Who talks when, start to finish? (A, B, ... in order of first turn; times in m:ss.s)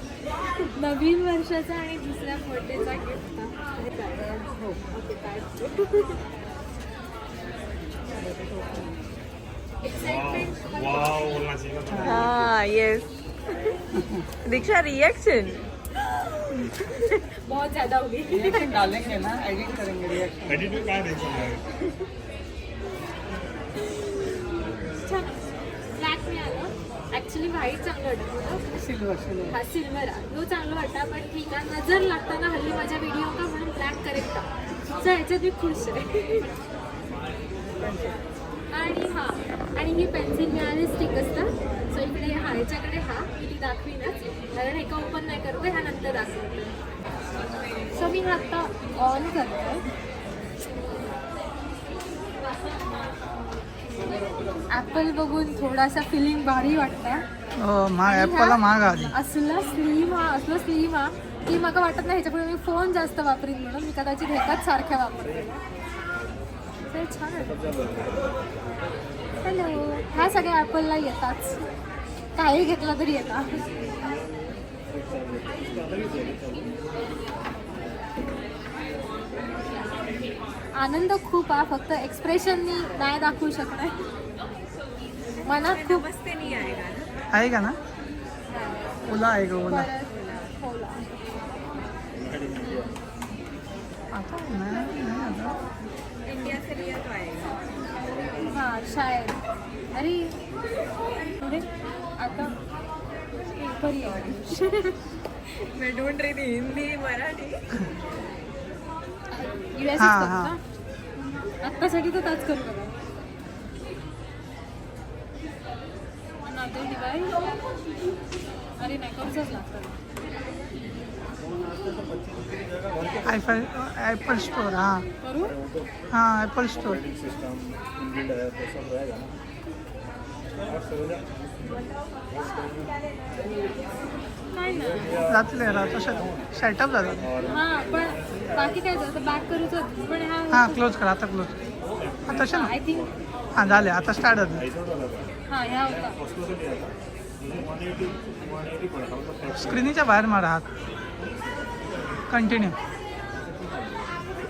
0:00.4-0:06.3 A
0:09.8-0:11.4 A
0:11.1-0:12.0 B
0:12.0-0:12.3 C
0:12.0-0:13.1 D
0:14.4-0:15.7 D
0:17.0-0:19.0 A
0:18.3-0:20.8 C
0:20.7-0:21.4 B
0:21.4-0:22.0 A
0:23.9-0:28.6 A
0:28.8-0:29.5 C
0:29.5-0:36.5 A
0:37.8-0:38.2 C
0:38.7-0:46.8 A
0:47.9-0:49.9 A
0:54.7-0:57.3 A
0:57.6-0:59.1 C
0:58.0-1:05.6 A
1:06.9-1:07.6 A
1:09.4-1:11.6 A
1:12.4-1:13.7 A
1:16.0-1:16.4 B
1:20.7-1:24.1 A
1:25.4-1:26.1 A
1:25.4-1:27.1 D
1:27.3-1:27.8 C
1:28.5-1:29.0 A
1:29.1-1:29.9 C
1:29.6-1:31.1 A
1:34.1-1:35.6 C
1:36.3-1:37.7 D
1:38.5-1:39.4 A
1:39.9-1:40.4 A
1:41.4-1:41.7 A
1:42.2-1:42.6 A
1:43.5-1:45.0 A
1:45.7-1:47.7 D
1:49.3-1:50.6 A
1:50.0-1:50.5 C
1:51.6-1:53.0 A
1:56.4-1:57.5 A
1:58.8-2:00.0 A
2:03.2-2:05.0 C
2:05.2-2:05.6 A
2:06.1-2:07.0 C
2:07.2-2:09.3 B
2:14.5-2:15.2 A
2:15.3-2:17.3 C
2:17.5-2:21.0 A
2:20.5-2:21.6 C
2:22.3-2:22.7 C
2:22.3-2:23.2 A
2:23.6-2:24.7 C
2:25.5-2:26.3 A
2:29.6-2:30.7 C
2:32.3-2:32.8 C